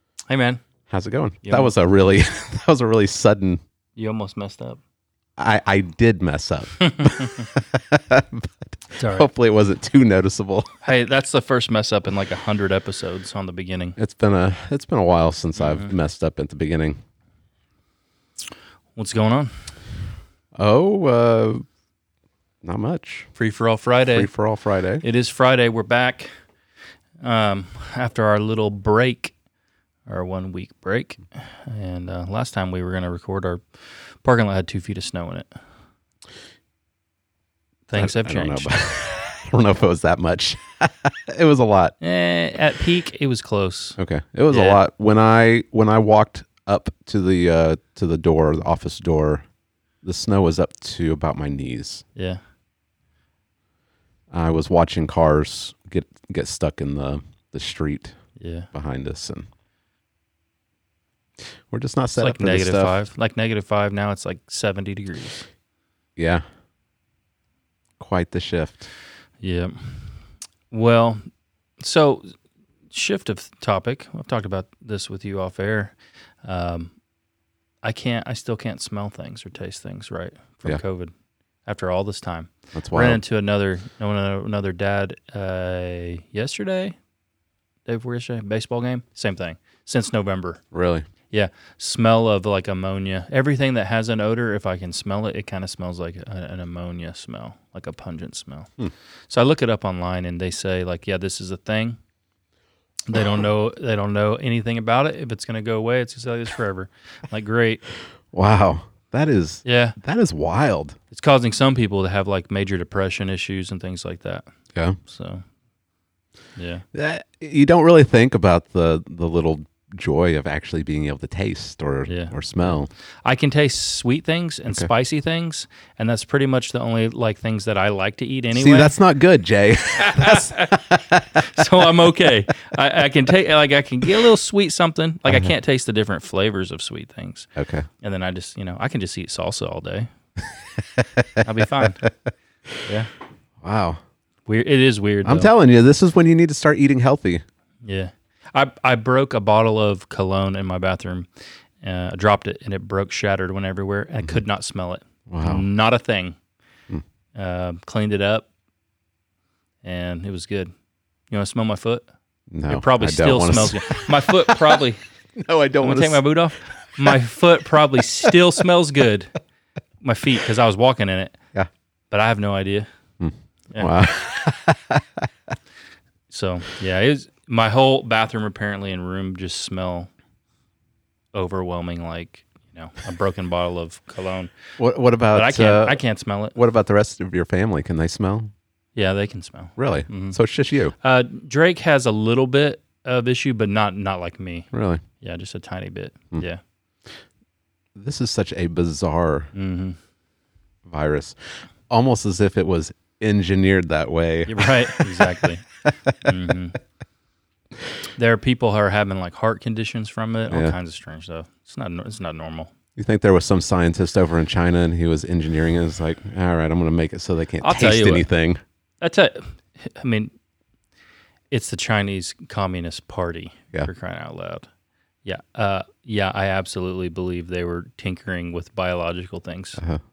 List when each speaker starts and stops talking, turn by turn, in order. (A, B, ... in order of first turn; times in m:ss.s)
0:00.3-0:00.6 A
0:00.9-0:03.6 B
0:01.4-0:01.7 A
0:04.0-0:04.8 A
0:05.4-0:10.7 B
0:06.9-0:07.5 A
0:09.0-0:09.3 A
0:10.8-0:14.0 A
0:14.0-0:17.0 B
0:19.0-0:19.5 A
0:20.6-0:21.6 B
0:22.6-0:23.3 B
0:23.4-0:24.3 A
0:24.1-0:25.0 B
0:25.0-0:26.3 A
0:27.2-0:29.3 A
0:30.1-0:33.6 A
0:34.2-0:35.5 A
0:37.9-0:38.7 A
0:38.0-0:42.0 B
0:42.0-0:44.0 A
0:44.0-0:49.4 B
0:44.5-0:44.8 A
0:50.0-0:52.0 B
0:52.2-0:52.4 A
0:54.3-0:58.2 B
0:58.4-0:58.7 A
0:58.7-0:59.5 B
1:01.7-1:03.0 B
1:02.2-1:05.5 A
1:06.2-1:06.4 B
1:08.0-1:08.9 B
1:09.4-1:10.1 A
1:10.7-1:11.2 A
1:11.8-1:12.3 A
1:12.9-1:16.9 A
1:17.8-1:21.1 A
1:21.7-1:27.0 A
1:22.8-1:23.2 B
1:27.9-1:30.6 A
1:30.7-1:31.1 B
1:31.3-1:38.7 A
1:39.3-1:42.0 A
1:43.1-1:47.8 A
1:48.3-1:51.0 B
1:49.6-1:50.0 A
1:51.1-1:54.5 A
1:55.0-1:55.4 A
1:56.6-1:56.8 A
1:56.9-2:02.9 B
2:02.1-2:02.3 A
2:03.2-2:09.0 A
2:08.5-2:11.3 B
2:09.9-2:10.9 A
2:11.4-2:17.5 A
2:17.6-2:17.9 B
2:18.0-2:20.1 A
2:21.0-2:22.1 B
2:21.4-2:22.0 A
2:22.8-2:23.1 A
2:23.6-2:24.0 B
2:24.5-2:25.5 A
2:25.2-2:27.4 B
2:27.8-2:31.3 A
2:31.8-2:36.4 A
2:35.3-2:35.6 B
2:37.4-2:38.5 A
2:39.8-2:40.7 A
2:41.3-2:42.0 A
2:42.5-2:44.8 B
2:42.7-2:45.0 A
2:45.4-2:46.2 B
2:45.8-2:49.3 A
2:50.0-2:51.4 A
2:52.1-2:52.9 A
2:53.2-2:55.3 B
2:56.3-3:00.1 A
3:01.3-3:04.5 A
3:04.8-3:06.0 B
3:05.3-3:06.6 A
3:06.6-3:08.5 B
3:09.0-3:10.4 A
3:09.8-3:11.0 B
3:11.0-3:14.7 A
3:14.7-3:15.0 B
3:15.2-3:16.6 A
3:18.0-3:19.5 B
3:19.6-3:20.0 A
3:20.9-3:21.4 B
3:21.9-3:25.3 B
3:24.5-3:25.6 A
3:26.2-3:26.8 A
3:28.2-3:32.7 A
3:33.0-3:38.6 B
3:37.6-3:38.2 A
3:39.0-3:40.3 A
3:41.5-3:44.7 A
3:45.2-3:49.8 A